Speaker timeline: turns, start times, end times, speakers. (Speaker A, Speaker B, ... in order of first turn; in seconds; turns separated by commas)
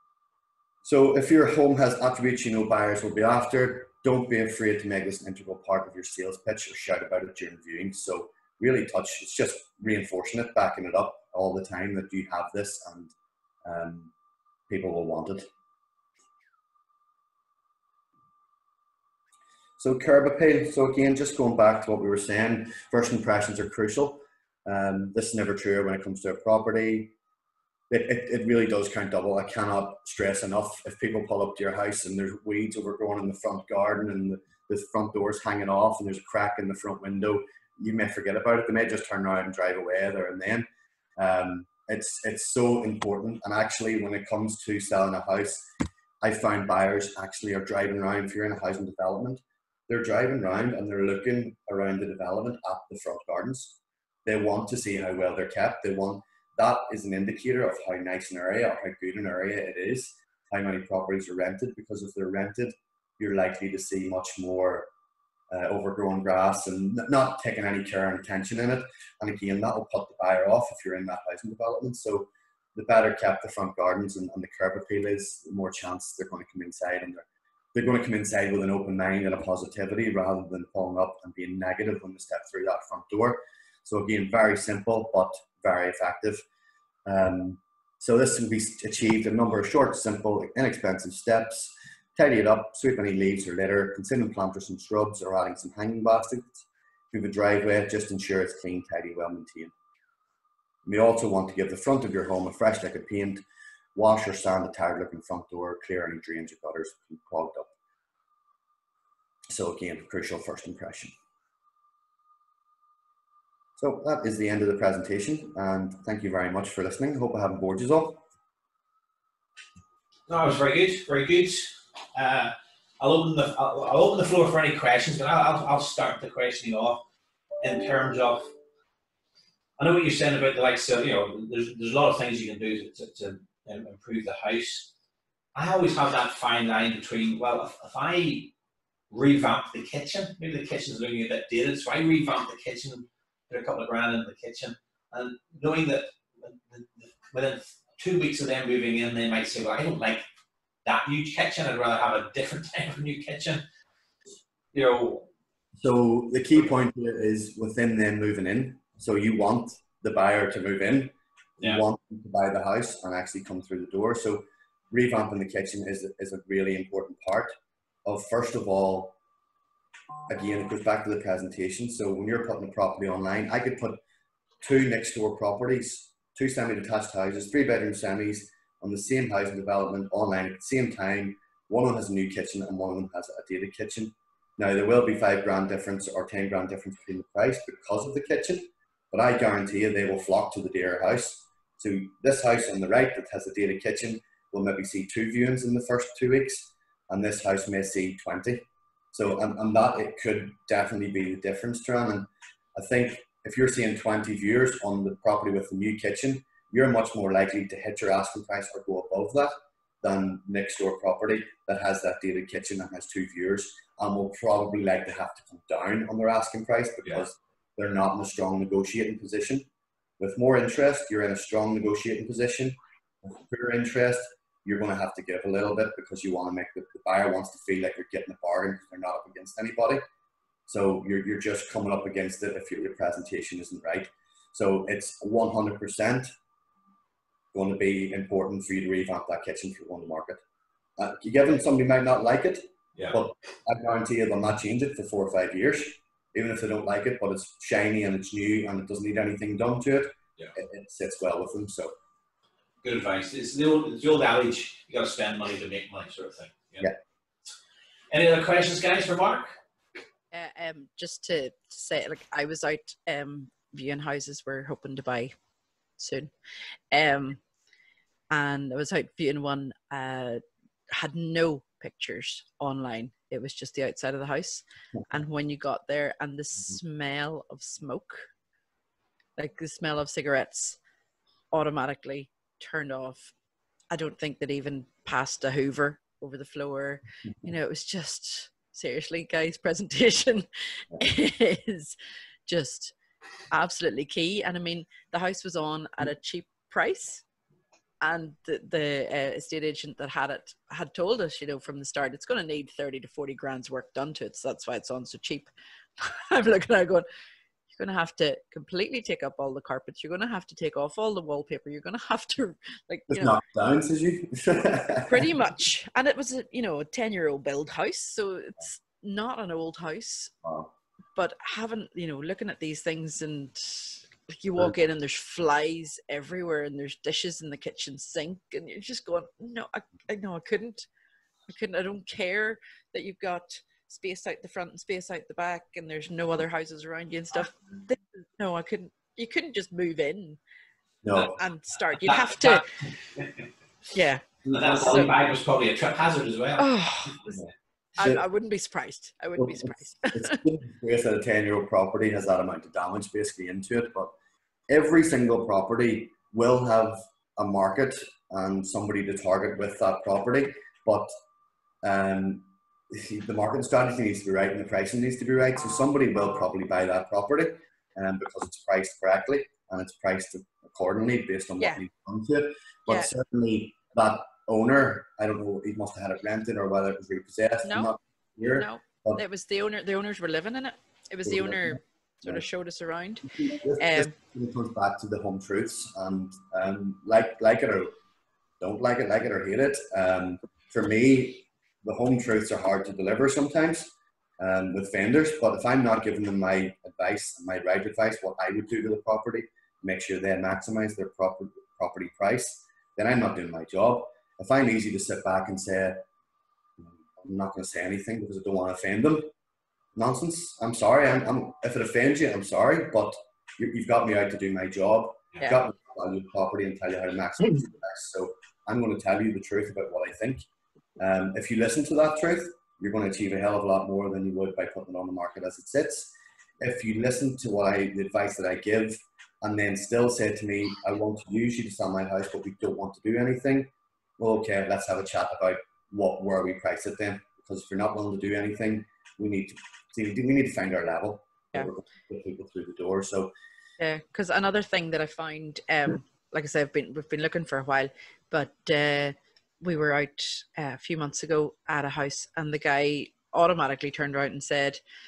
Speaker A: 0.8-13.1, Speaker A: 13.6-14.1, Speaker A: 14.7-15.5, Speaker A: 19.8-27.1, Speaker A: 27.9-40.6, Speaker A: 41.2-45.7, Speaker A: 46.2-64.9, Speaker A: 65.5-86.4, Speaker A: 87.0-99.7, Speaker A: 100.8-103.4, Speaker A: 103.9-107.7, Speaker A: 109.5-111.1, Speaker A: 113.8-118.2, Speaker B: 120.3-127.0, Speaker B: 127.6-128.5, Speaker B: 129.8-134.9, Speaker B: 135.5-138.5, Speaker B: 139.1-150.2, Speaker B: 150.8-153.6, Speaker B: 154.7-155.3, Speaker A: 155.8-169.2, Speaker A: 170.3-174.0, Speaker A: 174.6-219.7, Speaker A: 220.2-230.0, Speaker A: 230.7-236.3, Speaker A: 237.5-240.4, Speaker A: 241.0-251.9, Speaker B: 252.8-256.9, Speaker B: 258.1-259.6, Speaker C: 260.3-265.3, Speaker C: 266.0-266.3, Speaker C: 266.9-267.4, Speaker C: 268.3-278.2, Speaker C: 279.4-280.8, Speaker C: 281.5-283.3, Speaker C: 283.9-291.9, Speaker C: 292.4-292.9, Speaker C: 293.5-297.2, Speaker C: 298.0-307.0, Speaker C: 307.7-313.4, Speaker A: 313.1-315.3, Speaker C: 315.1-320.3, Speaker A: 320.4-320.7, Speaker C: 321.1-330.9, Speaker C: 331.5-340.4, Speaker A: 341.0-341.3, Speaker C: 341.3-342.7, Speaker B: 342.0-342.6, Speaker C: 343.9-345.1, Speaker A: 344.4-345.1, Speaker B: 344.5-346.6, Speaker C: 346.6-347.4, Speaker C: 348.0-350.4, Speaker A: 349.4-354.1, Speaker A: 354.7-361.1, Speaker A: 361.8-379.2, Speaker C: 377.6-377.9, Speaker C: 378.5-383.3, Speaker A: 381.2-382.4, Speaker A: 383.3-387.9, Speaker C: 383.8-384.1, Speaker A: 388.6-406.0, Speaker A: 406.8-409.3, Speaker A: 409.9-420.4, Speaker A: 421.0-443.3, Speaker C: 443.8-454.8